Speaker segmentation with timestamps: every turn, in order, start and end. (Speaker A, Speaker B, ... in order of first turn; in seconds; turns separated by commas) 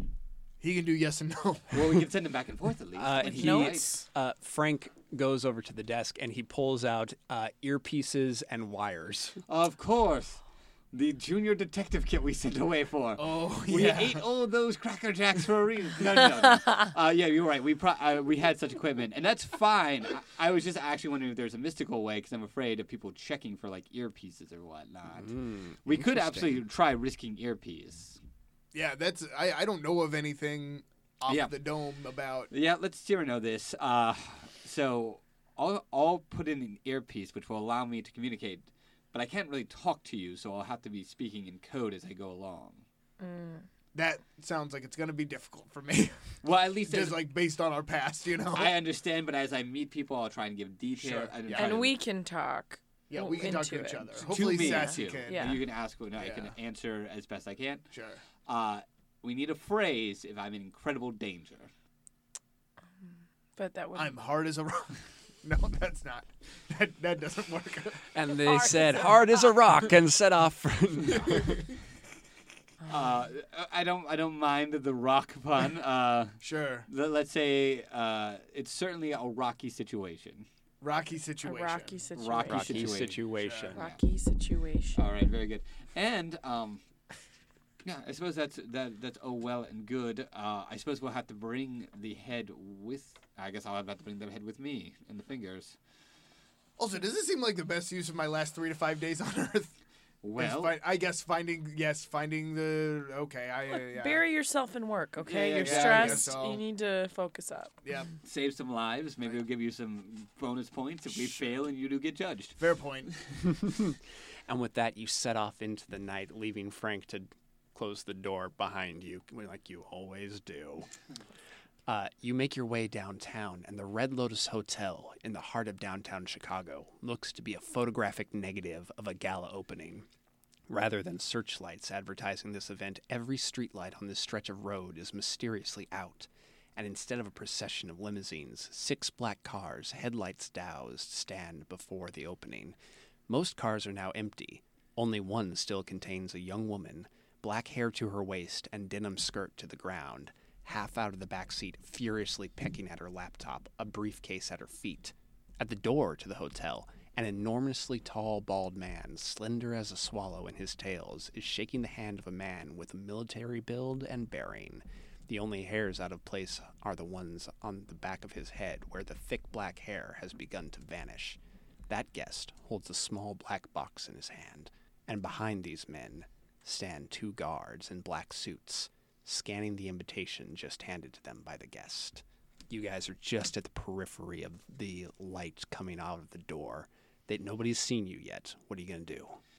Speaker A: 0.6-2.1, Speaker B: 1.7-3.9, Speaker C: 3.0-9.4, Speaker D: 3.2-4.0, Speaker B: 9.5-28.2, Speaker A: 13.2-14.2, Speaker C: 25.1-26.6, Speaker A: 28.7-32.5, Speaker B: 31.3-31.6, Speaker B: 32.5-42.9, Speaker D: 43.2-43.7, Speaker A: 43.9-46.2, Speaker B: 46.4-47.2, Speaker A: 46.9-48.8, Speaker B: 48.5-52.0, Speaker A: 51.0-51.8, Speaker D: 51.5-55.6, Speaker A: 53.1-55.6, Speaker B: 54.3-57.9, Speaker A: 56.2-56.5, Speaker A: 57.9-58.2, Speaker B: 58.5-61.7, Speaker D: 63.6-64.2, Speaker A: 64.0-68.0, Speaker C: 68.1-71.6, Speaker D: 68.5-69.2, Speaker B: 72.9-80.5, Speaker A: 76.4-76.9, Speaker A: 80.8-82.0, Speaker D: 81.4-82.9, Speaker B: 82.2-84.0, Speaker C: 82.5-83.8, Speaker A: 83.4-83.7, Speaker D: 83.7-85.0, Speaker B: 85.0-86.8, Speaker B: 87.8-95.8, Speaker A: 96.8-99.8, Speaker B: 100.2-100.8, Speaker A: 100.4-104.2, Speaker D: 103.7-107.8, Speaker B: 105.2-106.3, Speaker A: 105.6-106.6, Speaker A: 107.8-108.1, Speaker B: 108.2-113.1, Speaker A: 112.6-113.1, Speaker C: 113.5-120.9, Speaker C: 121.9-130.1, Speaker C: 130.7-142.8, Speaker C: 143.3-189.4